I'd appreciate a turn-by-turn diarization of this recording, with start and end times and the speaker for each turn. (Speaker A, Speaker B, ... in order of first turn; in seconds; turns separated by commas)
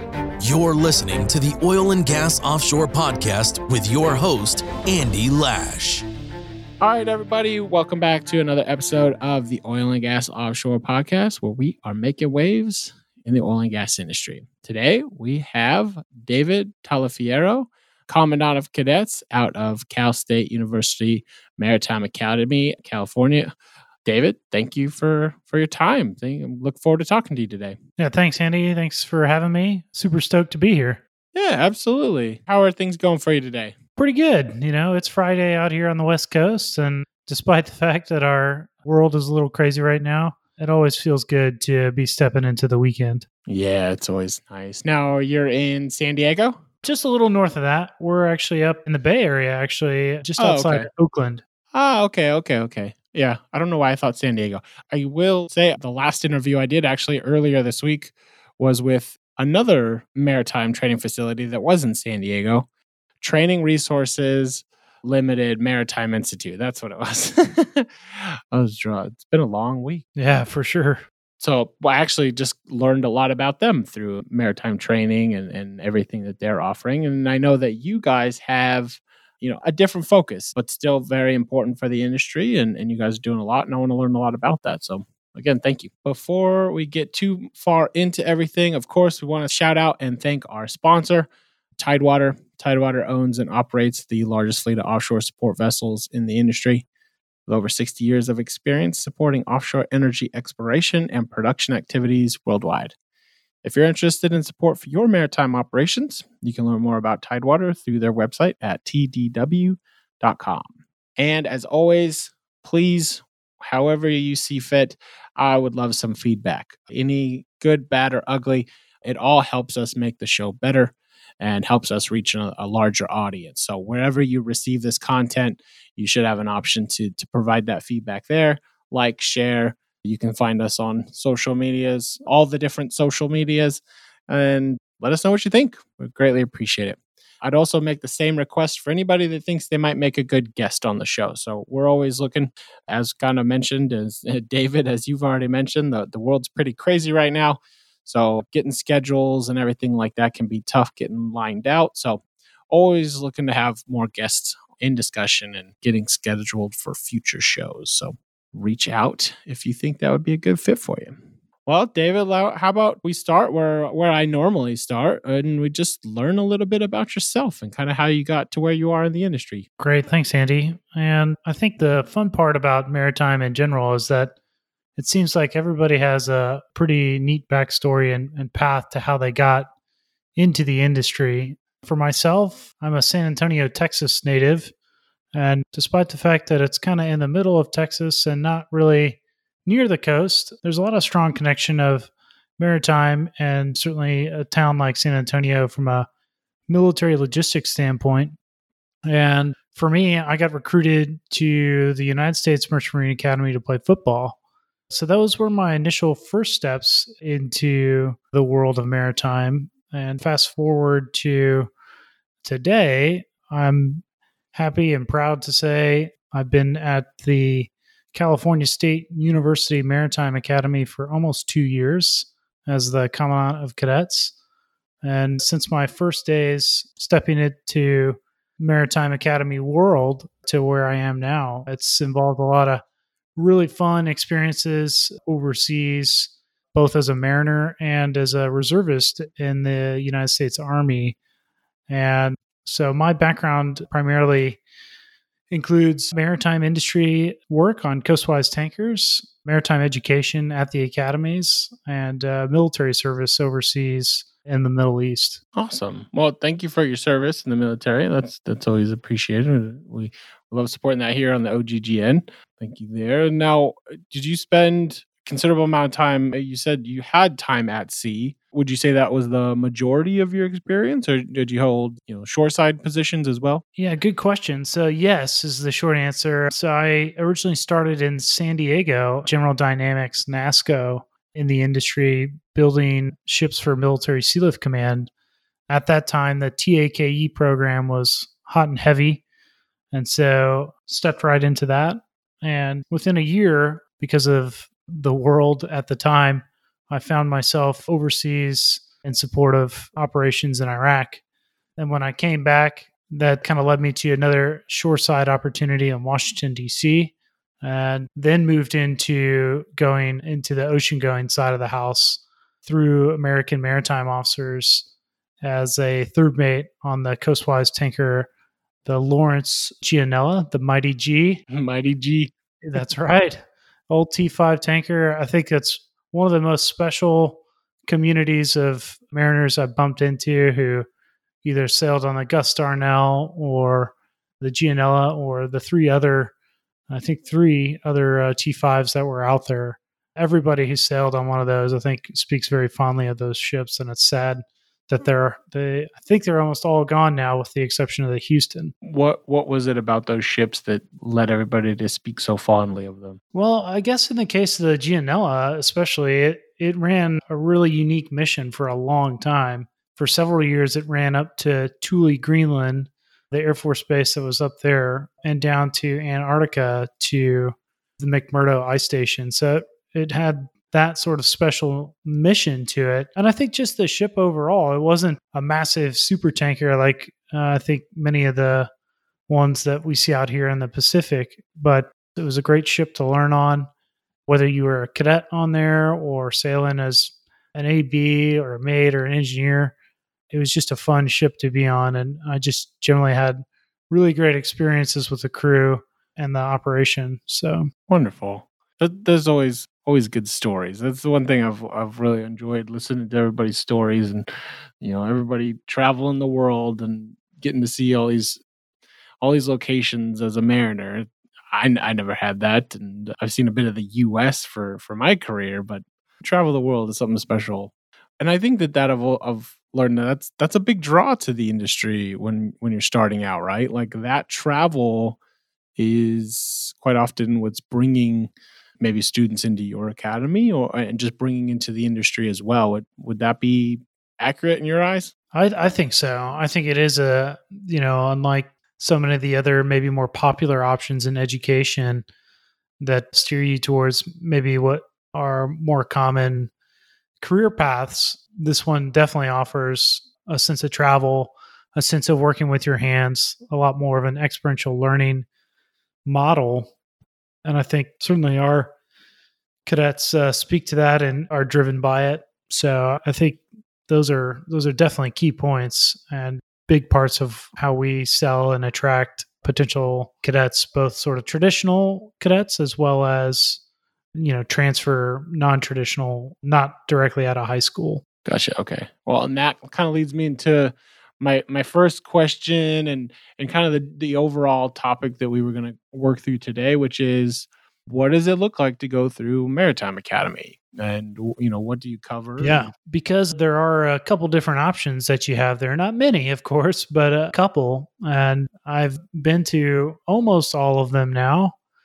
Speaker A: 0.4-6.0, Speaker B: 6.8-23.5, Speaker B: 24.0-27.8, Speaker C: 28.0-31.0, Speaker B: 31.3-33.7, Speaker C: 34.0-43.2, Speaker B: 43.5-46.6, Speaker C: 46.8-51.4, Speaker B: 50.4-50.9, Speaker B: 51.7-62.6, Speaker B: 63.2-70.0, Speaker C: 70.2-71.0, Speaker B: 71.4-96.8, Speaker B: 97.5-102.9, Speaker B: 103.6-169.7, Speaker C: 169.8-174.3, Speaker C: 175.0-179.7, Speaker C: 180.3-184.7, Speaker C: 185.3-196.1, Speaker C: 196.7-198.3, Speaker C: 199.1-204.4, Speaker C: 204.9-211.7, Speaker C: 212.4-214.0, Speaker C: 214.5-224.3, Speaker C: 225.0-232.8, Speaker C: 233.3-241.2, Speaker C: 241.9-244.6, Speaker C: 245.5-255.4, Speaker B: 255.5-273.6, Speaker C: 273.8-285.1, Speaker C: 285.7-289.2, Speaker C: 289.9-301.2, Speaker C: 301.8-314.9, Speaker C: 315.4-318.3, Speaker C: 318.8-321.4, Speaker B: 321.5-322.3, Speaker C: 322.6-330.9, Speaker C: 331.4-336.3, Speaker C: 336.9-348.7, Speaker B: 348.8-353.2, Speaker C: 353.3-378.7, Speaker C: 379.3-383.7, Speaker C: 384.3-389.7, Speaker C: 390.3-397.7, Speaker B: 397.9-408.4, Speaker B: 409.2-425.2, Speaker B: 425.8-435.1, Speaker C: 435.3-442.0, Speaker C: 442.8-446.5, Speaker C: 447.2-455.2, Speaker C: 456.0-456.7, Speaker C: 457.4-458.7, Speaker C: 459.6-473.6, Speaker C: 474.1-478.0, Speaker B: 478.2-492.7, Speaker C: 492.4-501.5